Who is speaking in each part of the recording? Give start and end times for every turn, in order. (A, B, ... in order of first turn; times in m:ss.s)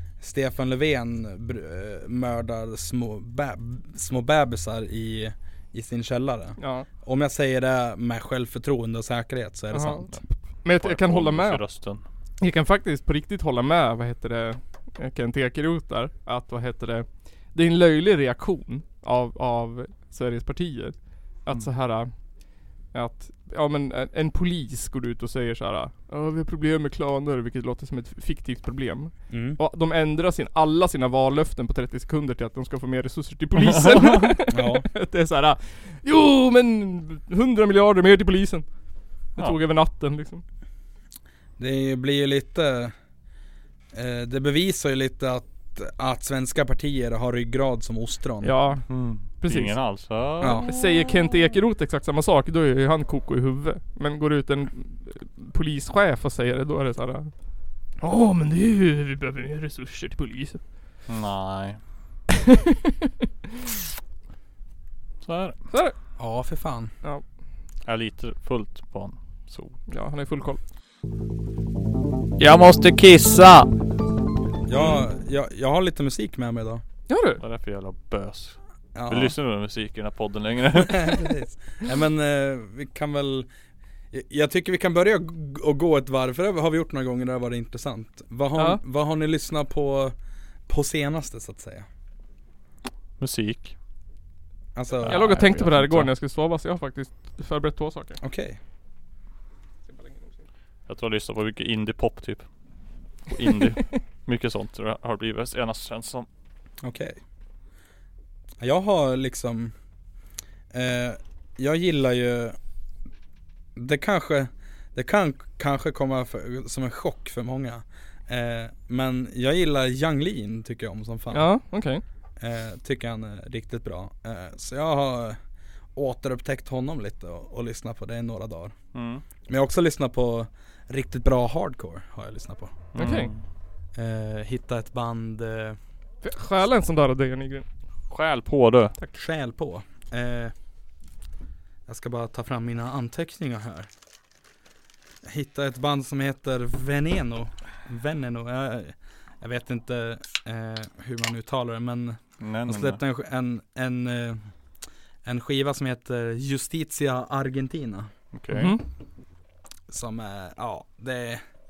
0:00.2-0:10.1 A
0:06.6-0:06.9 B
0:09.7-0:11.6 B
0:10.1-0:12.0 C
0:12.4-0:22.1 B
0:22.9-0:38.7 B
0:29.3-0:29.6 A
0:33.8-0:34.3 C
0:34.5-0:34.8 A
0:39.4-0:40.4 B
0:41.6-0:42.9 A
0:43.9-0:48.5 A
0:48.4-0:49.8 B
0:48.9-0:50.9 C
0:50.4-0:50.6 A
0:50.5-0:57.3 B
0:58.0-1:00.6 B
1:01.1-1:01.8 C
1:02.5-1:02.9 B
1:05.2-1:05.6 C
1:05.7-1:06.0 B
1:06.2-1:06.9 A
1:07.8-1:09.8 C
1:09.9-1:10.6 B
1:12.4-1:13.7 C
1:14.6-1:16.8 A
1:17.1-1:17.4 B
1:17.4-1:21.2 C
1:18.9-1:19.3 A
1:20.7-1:23.5 A
1:24.1-1:30.1 A
1:30.7-1:31.8 A
1:33.2-1:33.7 C
1:34.7-1:35.2 A
1:35.0-1:36.1 C
1:35.1-1:38.2 B
1:38.2-1:38.6 A
1:39.9-1:40.4 B
1:40.9-1:42.4 C
1:43.3-1:46.3 C
1:46.8-1:47.2 A
1:48.6-1:49.7 A
1:50.7-1:52.6 A
1:53.8-2:01.5 A
2:01.3-2:02.0 B
2:02.4-2:05.4 A
2:05.9-2:08.7 A
2:08.9-2:09.2 C
2:09.4-2:12.8 A
2:12.9-2:13.4 C
2:12.9-2:13.3 B
2:13.9-2:15.8 A
2:16.2-2:17.6 B
2:18.1-2:18.9 C
2:19.1-2:20.5 A
2:21.9-2:23.9 A
2:25.2-2:34.4 A
2:32.4-2:33.0 C
2:35.2-2:38.1 A
2:38.3-2:38.8 C
2:38.5-2:38.8 B
2:39.9-2:41.4 A